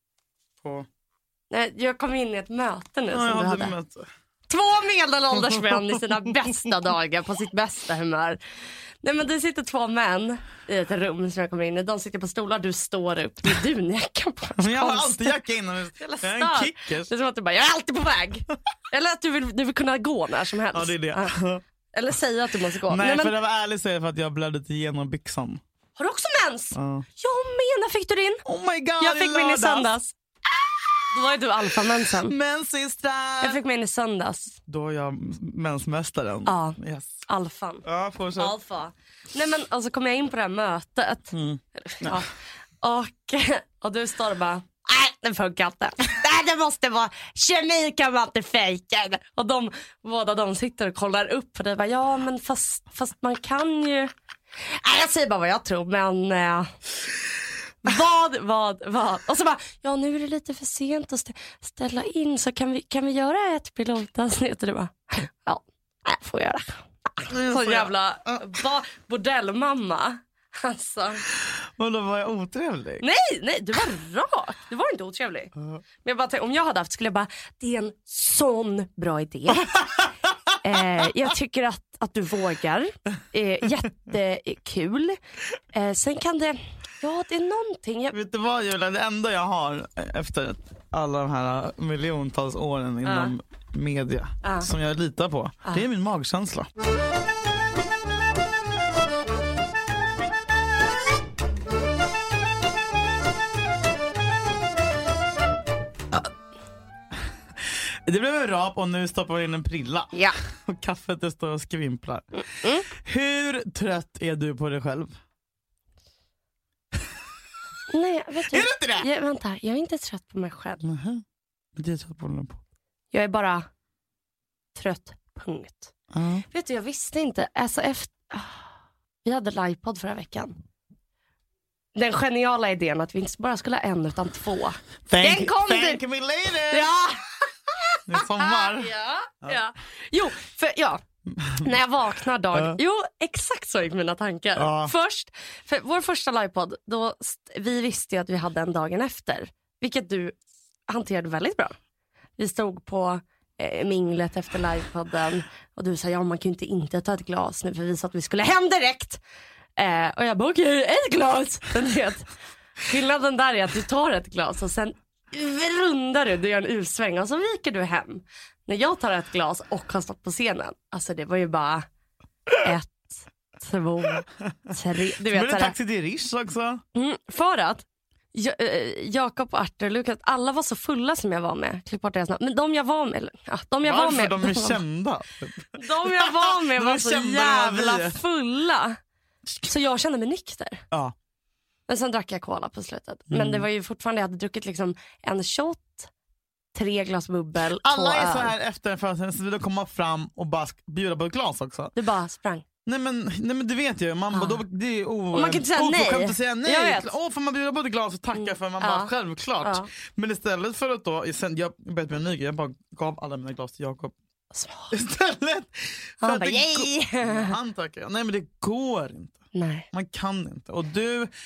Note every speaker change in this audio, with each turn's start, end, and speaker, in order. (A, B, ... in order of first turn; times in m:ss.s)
0:00.6-0:00.9 A
0:01.5-0:03.7 B
0:03.1-0:04.1 A
0:04.5-0:08.4 B
0:05.3-0:05.8 A
0:09.0-0:15.3 B
0:14.6-0:17.1 A
0:16.0-0:21.4 B
0:20.7-0:21.6 A
0:21.9-0:23.3 B
0:22.9-0:25.6 A
0:26.0-0:28.4 B
0:26.7-0:27.0 A
0:28.4-0:29.9 A
0:29.0-0:30.1 B
0:30.5-0:31.1 A
0:31.1-0:32.3 B
0:31.7-0:33.6 A
0:33.4-0:34.6 B
0:34.7-0:37.2 A
0:36.4-0:37.8 B
0:37.8-0:38.5 A
0:38.4-0:42.3 B
0:41.3-0:42.2 A
0:42.8-0:54.1 B
0:54.6-0:56.8 B
0:57.8-1:11.2 B
1:07.3-1:08.4 A
1:11.3-1:13.0 A
1:13.0-1:15.5 B
1:16.0-1:19.8 B
1:19.6-1:20.1 A
1:20.6-1:25.2 B
1:25.7-1:28.2 B
1:28.1-1:36.7 A
1:33.0-1:33.3 B
1:34.4-1:34.7 B
1:47.6-1:52.3 A
1:52.4-1:52.9 B
1:52.9-1:55.2 A
1:57.9-2:00.8 B
1:58.5-1:59.1 A
2:00.8-2:01.2 A
2:01.8-2:02.6 A
2:03.1-2:03.7 B
2:04.7-2:05.9 B
2:06.1-2:06.4 A
2:06.5-2:08.7 B
2:09.2-2:10.6 B
2:11.9-2:16.0 B
2:15.1-2:16.9 A
2:16.7-2:21.0 B
2:18.1-2:19.6 A
2:21.3-2:21.7 A
2:21.6-2:30.4 B
2:22.5-2:22.8 A
2:24.6-2:24.9 A
2:30.9-2:31.7 B
2:32.4-2:39.2 B
2:39.8-2:42.3 B
2:42.8-2:51.8 B
2:52.6-2:55.7 B
2:55.2-2:56.8 A
2:56.9-3:04.8 B
3:03.8-3:08.2 A
3:05.8-3:09.0 B
3:09.6-3:10.8 B
3:11.9-3:16.1 B
3:13.3-3:13.7 A
3:16.7-3:18.5 B
3:17.8-3:21.9 A
3:21.9-3:22.6 B
3:22.8-3:34.1 A
3:24.3-3:24.6 B
3:25.3-3:27.1 B
3:28.4-3:29.9 B
3:34.5-3:34.9 B
3:34.9-3:41.3 A
3:36.2-3:37.5 B
3:39.5-3:39.8 B